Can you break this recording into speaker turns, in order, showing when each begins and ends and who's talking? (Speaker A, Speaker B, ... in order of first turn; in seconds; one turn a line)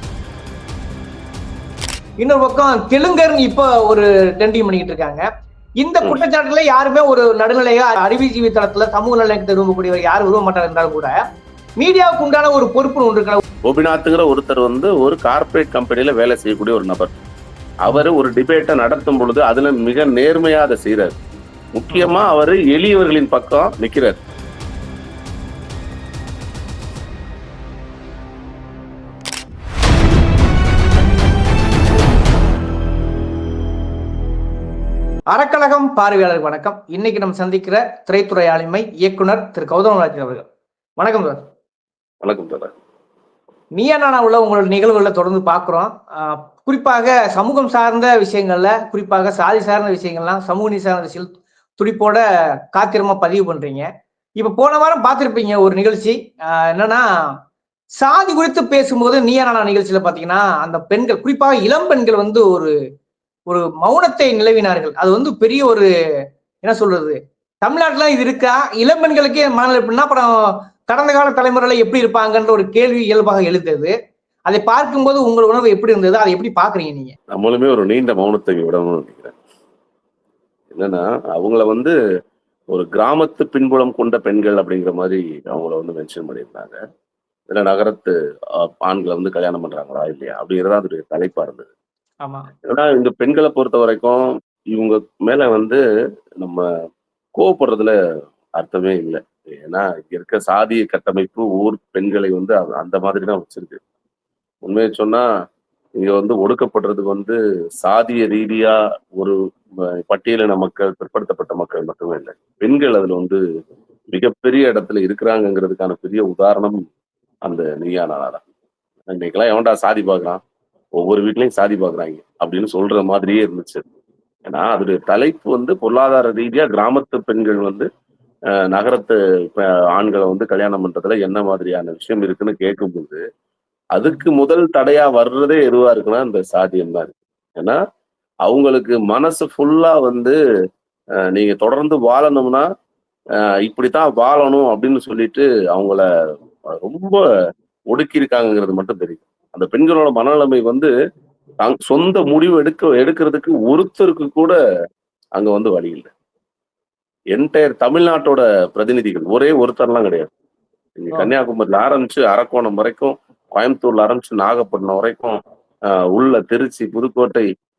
Speaker A: 2.2-5.2
Speaker A: 5.8-11.1
Speaker A: 11.8-13.4
Speaker B: 13.7-17.1
Speaker B: 17.8-21.2
Speaker B: 21.7-24.2
Speaker A: 21.9-22.1
Speaker A: 35.3-40.4
Speaker A: 41.0-41.4
Speaker B: 42.2-42.7
Speaker A: 43.8-57.3
Speaker A: 58.0-62.7
Speaker A: 63.5-65.9
Speaker A: 66.6-73.9
Speaker A: 74.5-77.2
Speaker B: 77.3-79.3
Speaker B: 80.7-81.9
Speaker B: 82.7-86.8
Speaker B: 87.5-91.7
Speaker A: 92.2-92.5
Speaker B: 92.7-95.8
Speaker B: 96.4-96.6
Speaker B: 97.3-97.9
Speaker B: 98.5-103.8
Speaker B: 104.7-105.2
Speaker B: 106.0-109.3
Speaker B: 109.9-113.4
Speaker B: 114.1-116.8
Speaker B: 117.4-118.4
Speaker B: 119.1-120.4
Speaker B: 121.0-123.8
Speaker B: 124.5-127.9
Speaker B: 128.7-133.2
Speaker B: 133.9-137.8
Speaker B: 138.4-140.4
Speaker B: 141.3-142.7
Speaker B: 143.7-146.0
Speaker B: 146.8-147.2
Speaker B: 147.9-150.9
Speaker B: 151.6-154.6
Speaker B: 155.3-156.1
Speaker B: 157.3-160.3
Speaker B: 161.0-165.4
Speaker B: 165.9-167.4